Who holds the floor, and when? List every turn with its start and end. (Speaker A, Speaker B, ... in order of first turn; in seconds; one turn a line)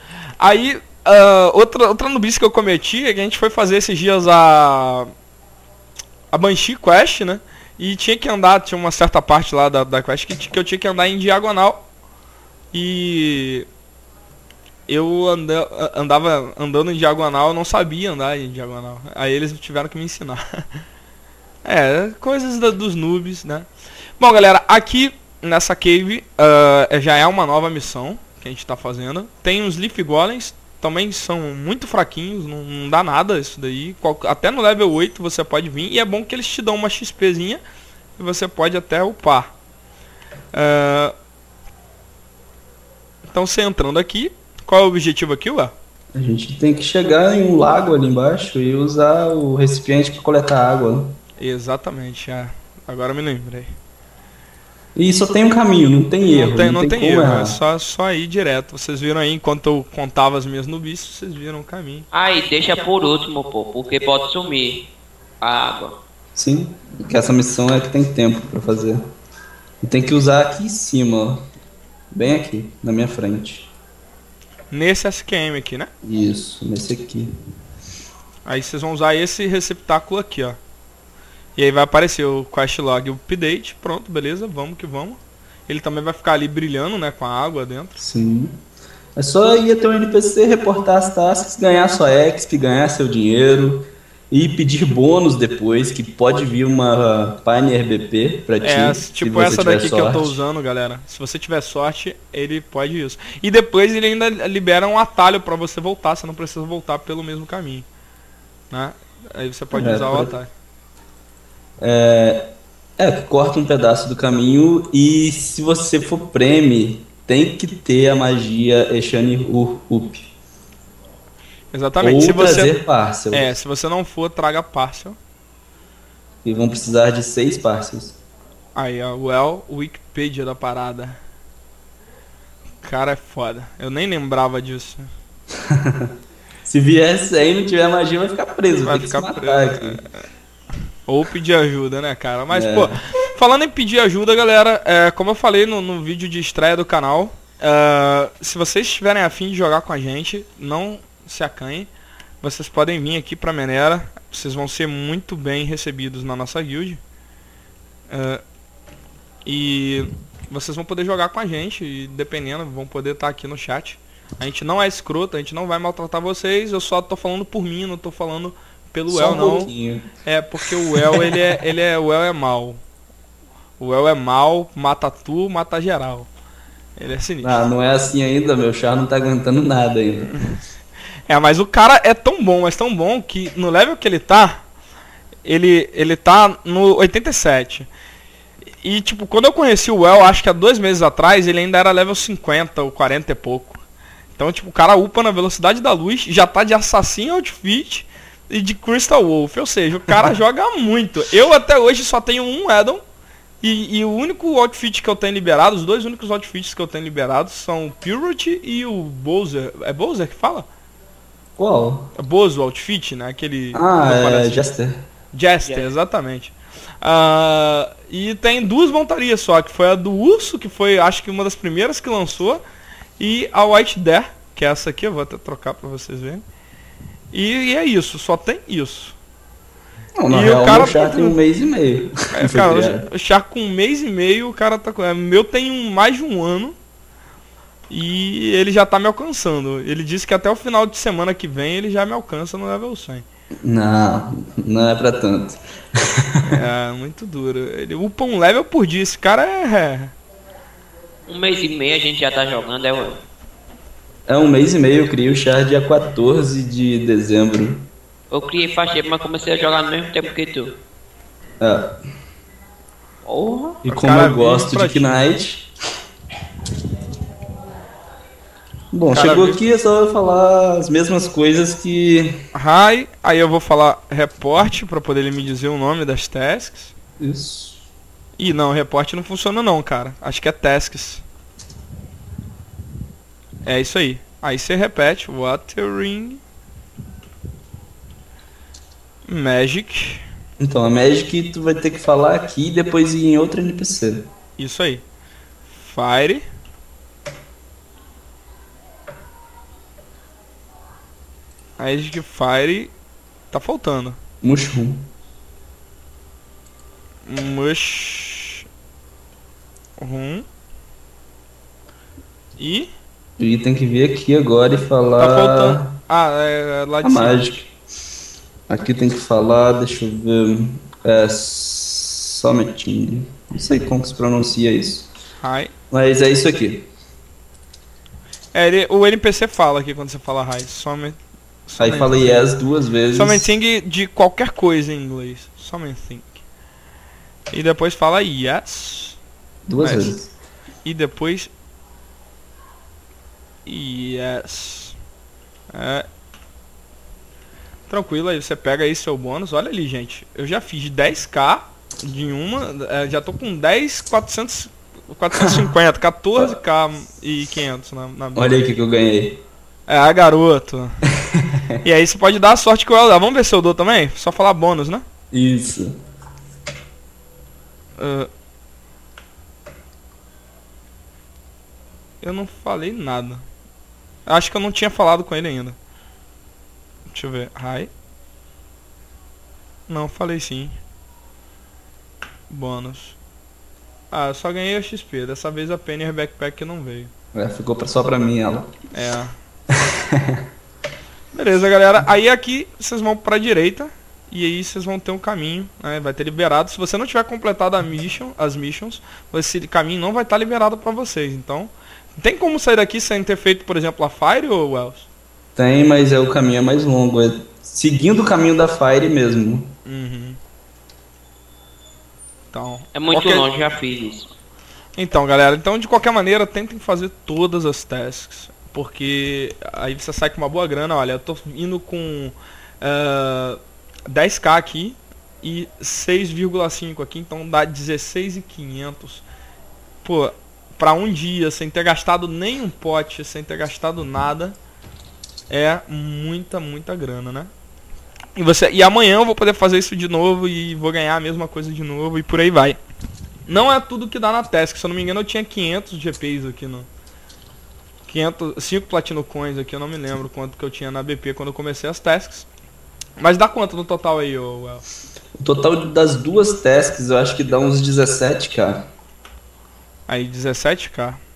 Speaker A: 0.4-5.1
Speaker A: 6.3-11.8
Speaker A: 12.7-13.7
Speaker A: 14.9-20.6
Speaker A: 21.6-23.7
Speaker A: 24.2-37.6
Speaker A: 38.2-39.5
Speaker A: 40.5-41.1
Speaker A: 43.3-45.7
Speaker B: 46.1-51.2
Speaker A: 51.4-53.7
Speaker B: 55.0-57.6
Speaker A: 56.2-62.1
Speaker C: 62.1-64.9
Speaker C: 65.4-66.0
Speaker B: 66.3-69.0
Speaker B: 69.8-71.5
Speaker B: 72.1-73.7
Speaker A: 74.7-75.9
Speaker B: 76.0-77.3
Speaker A: 78.5-80.6
Speaker A: 81.5-88.0
Speaker B: 88.0-88.6
Speaker B: 89.2-100.4
Speaker A: 98.6-107.9
Speaker A: 108.7-110.5
Speaker B: 109.7-110.3
Speaker B: 111.8-120.3
Speaker A: 121.7-122.8
Speaker B: 122.0-123.6
Speaker A: 123.3-125.2
Speaker B: 126.4-128.2
Speaker A: 128.7-131.2
Speaker A: 132.8-135.1
Speaker B: 135.6-136.1
Speaker B: 136.6-140.0
Speaker A: 138.8-140.1
Speaker A: 141.1-151.9
Speaker B: 142.5-142.9
Speaker A: 152.4-157.0
Speaker A: 158.1-158.4
Speaker A: 159.4-169.7
Speaker B: 169.1-170.1
Speaker A: 170.2-172.8
Speaker B: 170.7-171.5
Speaker A: 173.8-176.3
Speaker A: 177.0-177.6
Speaker B: 177.4-180.3
Speaker A: 181.3-184.6
Speaker A: 185.4-187.9
Speaker A: 188.8-193.8
Speaker A: 194.3-203.0
Speaker A: 203.6-210.7
Speaker B: 211.6-212.1
Speaker A: 212.2-214.7
Speaker B: 213.7-215.0
Speaker A: 215.3-222.6
Speaker A: 223.2-226.4
Speaker A: 227.3-229.2
Speaker B: 230.2-233.1
Speaker A: 230.3-231.4
Speaker A: 232.3-236.7
Speaker A: 237.9-243.2
Speaker B: 243.6-246.6
Speaker A: 246.4-250.1
Speaker C: 251.3-253.2
Speaker B: 254.3-257.9
Speaker C: 258.3-260.8
Speaker B: 261.6-262.0
Speaker C: 263.2-263.8
Speaker B: 263.8-265.7
Speaker A: 263.9-265.2
Speaker B: 268.9-272.4
Speaker A: 269.1-269.6
Speaker A: 272.5-276.9
Speaker B: 277.2-277.8
Speaker A: 278.4-281.2
Speaker A: 283.6-286.4
Speaker A: 289.2-290.2
Speaker B: 290.6-294.3
Speaker A: 294.6-295.0
Speaker A: 295.7-296.4
Speaker A: 301.8-302.9
Speaker A: 303.5-304.2
Speaker B: 304.4-305.1
Speaker A: 307.3-308.6
Speaker A: 310.0-310.4
Speaker A: 312.6-312.9
Speaker B: 313.4-316.0
Speaker A: 315.2-317.6
Speaker B: 317.0-317.7
Speaker B: 318.7-325.1
Speaker A: 325.4-325.7
Speaker B: 325.9-326.9
Speaker A: 328.5-332.5
Speaker B: 331.8-333.5
Speaker A: 333.1-336.4
Speaker A: 337.5-339.2
Speaker B: 339.7-340.3
Speaker A: 339.8-340.1
Speaker A: 340.8-341.5
Speaker A: 343.6-344.9
Speaker A: 345.7-346.1
Speaker A: 347.9-358.6
Speaker B: 355.4-355.7
Speaker B: 358.4-359.4
Speaker A: 359.9-361.0
Speaker B: 361.2-361.8
Speaker A: 361.8-365.0
Speaker B: 365.3-365.9
Speaker A: 368.0-368.3
Speaker A: 372.2-373.4
Speaker A: 374.2-375.8
Speaker A: 377.1-377.9
Speaker A: 379.9-380.7
Speaker A: 382.5-383.2
Speaker A: 384.1-387.1
Speaker B: 387.3-388.7
Speaker A: 388.9-389.3
Speaker B: 389.7-390.5
Speaker A: 391.3-405.1
Speaker B: 405.6-409.7
Speaker A: 409.9-410.4
Speaker A: 412.5-413.5
Speaker C: 412.9-414.3
Speaker A: 414.9-429.2
Speaker A: 430.0-434.6
Speaker A: 435.5-437.5
Speaker A: 438.4-442.8
Speaker A: 443.5-446.9
Speaker A: 448.1-452.5
Speaker A: 453.2-454.8
Speaker B: 455.4-458.9
Speaker A: 460.1-461.2